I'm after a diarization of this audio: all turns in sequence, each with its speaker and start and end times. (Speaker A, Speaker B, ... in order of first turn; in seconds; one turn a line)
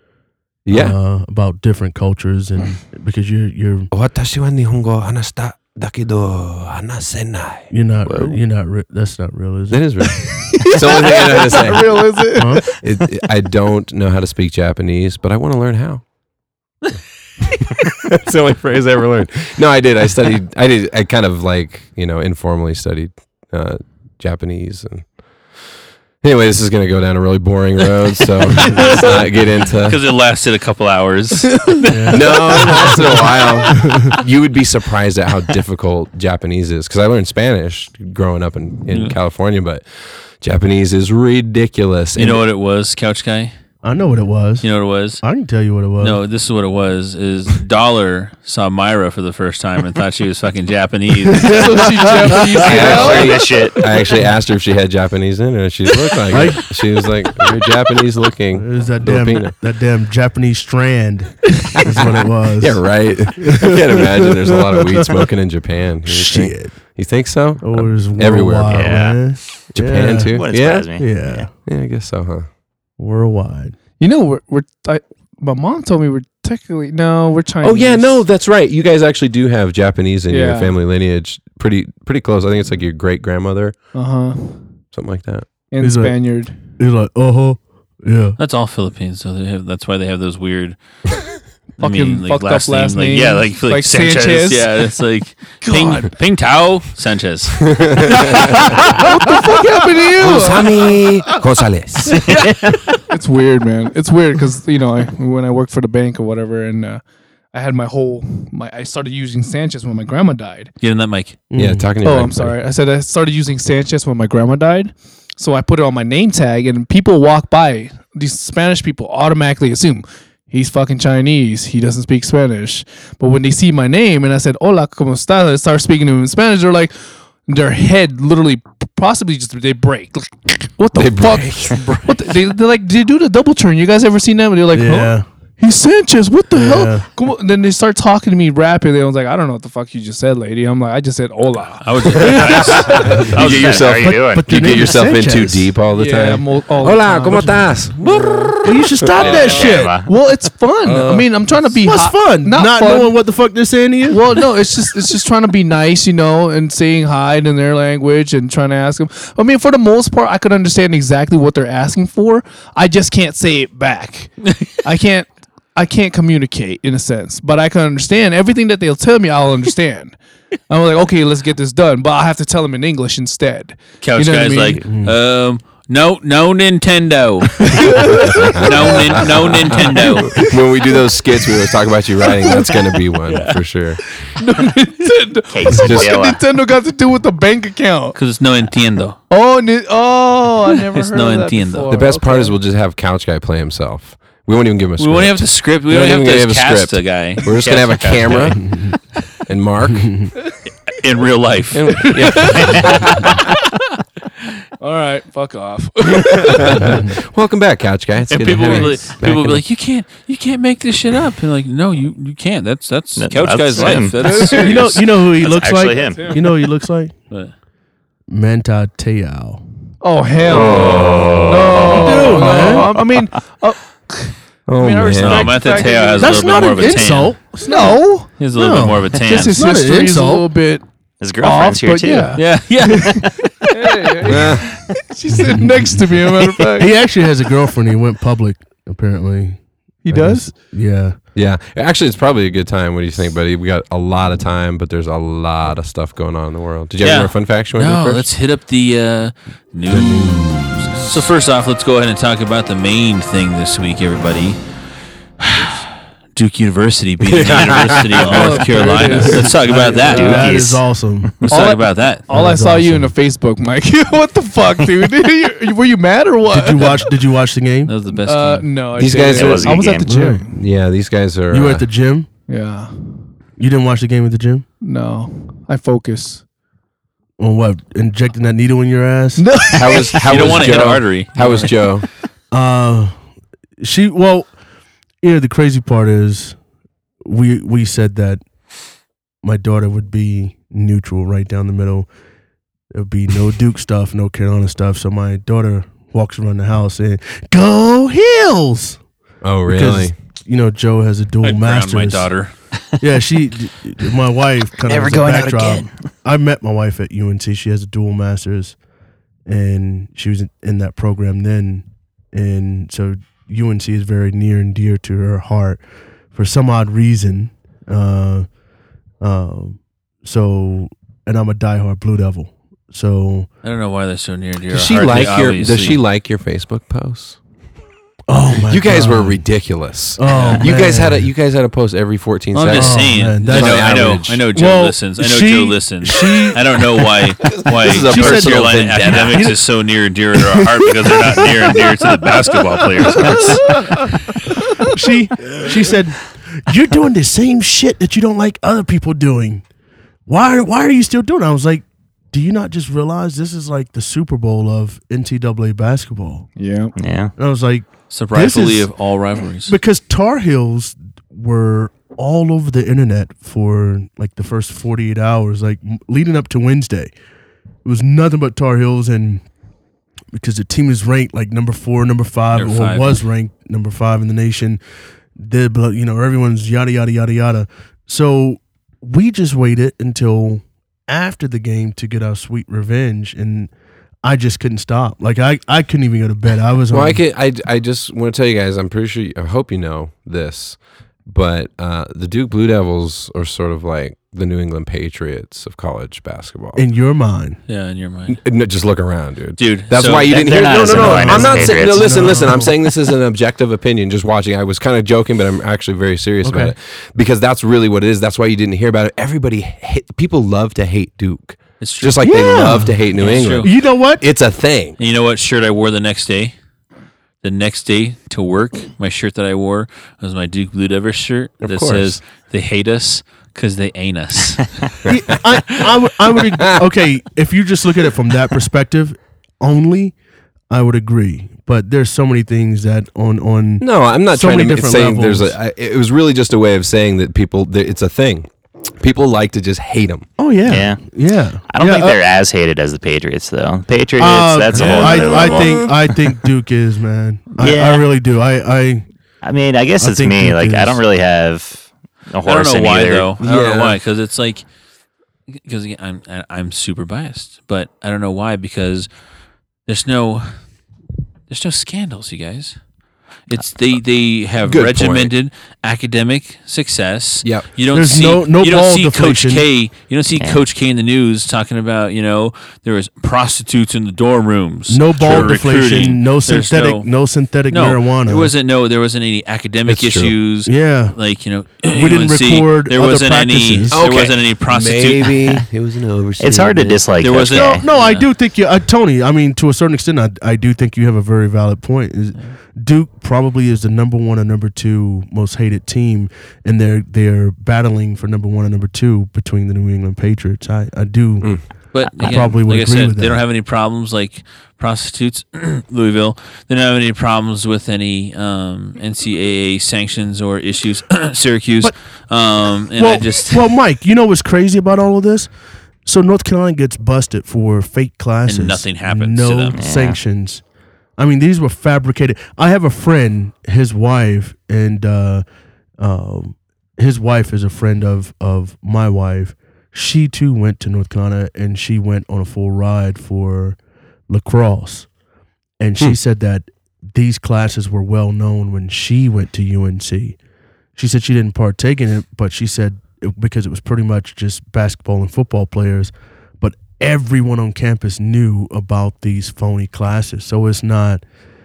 Speaker A: 0.7-1.0
Speaker B: 0.7-3.9
Speaker A: 3.9-8.4
Speaker B: 7.7-9.9
Speaker A: 9.7-12.3
Speaker C: 10.2-12.8
Speaker B: 12.4-12.6
Speaker A: 12.8-16.1
Speaker A: 17.6-25.1
Speaker A: 26.2-30.0
Speaker C: 28.8-29.1
Speaker D: 29.8-33.1
Speaker B: 31.9-33.0
Speaker A: 32.1-42.4
Speaker B: 33.8-34.1
Speaker D: 38.9-39.2
Speaker D: 42.2-43.5
Speaker B: 43.8-44.7
Speaker D: 44.6-45.2
Speaker B: 45.2-46.2
Speaker D: 46.0-52.1
Speaker B: 51.3-52.8
Speaker C: 51.4-53.5
Speaker A: 52.6-59.5
Speaker E: 52.6-53.8
Speaker B: 56.3-56.8
Speaker B: 58.5-65.3
Speaker A: 61.8-69.2
Speaker B: 66.1-66.8
Speaker B: 67.6-70.4
Speaker E: 68.7-69.2
Speaker A: 69.7-71.0
Speaker E: 70.3-71.5
Speaker B: 71.0-71.5
Speaker A: 71.6-72.5
Speaker B: 73.0-73.8
Speaker C: 74.0-78.2
Speaker A: 77.6-83.8
Speaker C: 80.3-80.8
Speaker C: 83.9-84.7
Speaker A: 84.9-85.5
Speaker C: 85.7-86.8
Speaker B: 85.8-88.4
Speaker D: 88.4-90.8
Speaker C: 91.8-94.7
Speaker D: 91.8-97.9
Speaker C: 95.6-96.1
Speaker A: 97.7-98.7
Speaker C: 98.1-101.3
Speaker A: 100.2-102.4
Speaker E: 102.4-102.7
Speaker C: 103.1-110.7
Speaker D: 110.8-111.4
Speaker B: 111.5-111.9
Speaker A: 111.5-112.5
Speaker C: 112.0-143.3
Speaker A: 130.9-132.1
Speaker B: 134.7-135.3
Speaker B: 136.5-137.1
Speaker D: 141.8-143.9
Speaker A: 142.2-149.3
Speaker E: 143.2-144.5
Speaker B: 144.0-145.8
Speaker C: 145.9-148.6
Speaker B: 148.6-150.0
Speaker E: 149.2-150.1
Speaker D: 149.2-149.6
Speaker C: 149.2-153.2
Speaker A: 150.8-151.3
Speaker B: 151.8-154.4
Speaker C: 154.1-170.2
Speaker C: 170.7-174.8
Speaker D: 174.0-180.4
Speaker B: 174.8-175.2
Speaker C: 177.6-181.1
Speaker A: 178.2-184.0
Speaker C: 182.2-183.0
Speaker D: 183.3-183.6
Speaker C: 184.1-188.2
Speaker E: 185.5-186.4
Speaker A: 185.8-186.2
Speaker D: 188.2-189.2
Speaker C: 189.3-192.6
Speaker D: 190.7-192.0
Speaker A: 191.9-198.7
Speaker D: 195.0-198.8
Speaker B: 198.6-198.9
Speaker A: 199.5-200.2
Speaker B: 200.0-200.3
Speaker D: 200.9-203.5
Speaker A: 201.8-203.3
Speaker C: 201.9-203.3
Speaker C: 204.8-207.0
Speaker A: 206.2-209.6
Speaker B: 206.8-207.1
Speaker D: 208.3-215.3
Speaker C: 208.7-209.0
Speaker E: 213.2-214.7
Speaker C: 213.8-214.8
Speaker B: 214.3-217.1
Speaker E: 215.4-216.4
Speaker C: 216.0-216.5
Speaker B: 218.3-219.6
Speaker C: 220.0-228.5
Speaker E: 220.4-222.8
Speaker A: 220.7-221.5
Speaker B: 221.9-223.0
Speaker A: 224.7-225.7
Speaker D: 225.1-227.4
Speaker B: 226.2-230.5
Speaker D: 228.4-229.6
Speaker C: 229.1-230.8
Speaker E: 231.2-233.3
Speaker C: 231.4-237.0
Speaker D: 232.3-233.7
Speaker A: 234.2-234.8
Speaker B: 235.3-241.2
Speaker C: 240.0-240.6
Speaker A: 241.3-248.3
Speaker D: 247.0-254.6
Speaker B: 249.9-251.2
Speaker D: 255.4-260.7
Speaker A: 257.2-258.6
Speaker C: 258.2-259.6
Speaker B: 258.7-261.5
Speaker E: 260.0-261.4
Speaker D: 261.4-262.3
Speaker C: 261.5-267.1
Speaker B: 262.3-263.1
Speaker B: 266.5-267.9
Speaker D: 267.9-268.7
Speaker C: 268.1-270.6
Speaker A: 269.0-269.9
Speaker E: 269.1-270.1
Speaker B: 270.1-270.5
Speaker A: 270.5-271.9
Speaker B: 271.5-272.3
Speaker C: 272.5-273.4
Speaker B: 273.6-274.7
Speaker C: 274.8-276.4
Speaker B: 277.4-279.5
Speaker C: 279.4-281.7
Speaker A: 279.8-282.1
Speaker D: 280.2-281.7
Speaker B: 282.5-283.1
Speaker B: 283.8-284.5
Speaker B: 285.2-286.6
Speaker B: 287.2-288.4
Speaker B: 289.4-292.1
Speaker B: 292.9-299.0
Speaker A: 299.4-300.1
Speaker B: 299.7-302.3
Speaker D: 301.4-302.5
Speaker B: 303.0-308.8
Speaker E: 304.8-305.9
Speaker B: 309.5-318.6
Speaker B: 319.2-323.5
Speaker D: 323.6-326.0
Speaker A: 324.7-327.4
Speaker B: 328.3-329.4
Speaker A: 328.7-334.4
Speaker B: 330.2-331.3
Speaker D: 330.2-330.7
Speaker D: 332.5-344.1
Speaker B: 332.7-337.1
Speaker A: 337.8-339.5
Speaker B: 337.9-339.6
Speaker B: 340.4-342.3
Speaker B: 343.0-349.6
Speaker B: 350.3-356.5
Speaker C: 356.6-356.9
Speaker E: 357.0-357.3
Speaker B: 357.4-358.9
Speaker D: 358.1-359.8
Speaker B: 359.6-367.1
Speaker B: 367.8-369.4
Speaker B: 370.3-374.8
Speaker D: 372.5-373.2
Speaker B: 375.4-383.7
Speaker B: 384.2-387.2
Speaker A: 386.9-396.8
Speaker B: 396.8-397.6
Speaker D: 397.7-398.4
Speaker A: 398.3-415.0
Speaker D: 399.6-401.0
Speaker E: 400.2-402.6
Speaker B: 401.0-402.7
Speaker B: 406.4-406.7
Speaker D: 411.8-412.3
Speaker B: 412.2-414.2
Speaker D: 413.1-413.7
Speaker D: 415.0-416.6
Speaker D: 417.4-424.9
Speaker A: 421.6-422.2
Speaker B: 425.1-430.2
Speaker B: 430.7-435.6
Speaker A: 433.8-440.3
Speaker B: 440.4-442.2
Speaker E: 440.7-441.0
Speaker E: 441.7-446.2
Speaker B: 444.2-449.1
Speaker A: 444.7-445.8
Speaker E: 447.6-448.1
Speaker E: 449.4-453.3
Speaker B: 450.0-451.0
Speaker D: 452.4-454.7
Speaker A: 453.4-454.0
Speaker D: 455.5-459.1
Speaker D: 459.9-460.6
Speaker D: 461.5-462.8
Speaker D: 463.5-477.1
Speaker A: 464.6-465.3
Speaker A: 467.4-467.7
Speaker B: 467.9-469.6
Speaker B: 474.9-478.5
Speaker A: 475.2-475.6
Speaker D: 477.7-485.6
Speaker A: 479.9-480.3
Speaker B: 480.7-481.2
Speaker B: 481.9-484.0
Speaker A: 483.9-487.0
Speaker E: 486.4-487.8
Speaker D: 487.2-488.3
Speaker B: 487.5-501.6
Speaker D: 501.9-513.7
Speaker B: 502.1-503.4
Speaker B: 513.0-515.5
Speaker B: 516.0-520.6
Speaker D: 518.5-519.8
Speaker E: 519.7-520.2
Speaker B: 521.2-525.4
Speaker B: 526.0-533.8
Speaker B: 534.3-535.1
Speaker B: 535.8-540.4
Speaker B: 541.0-551.2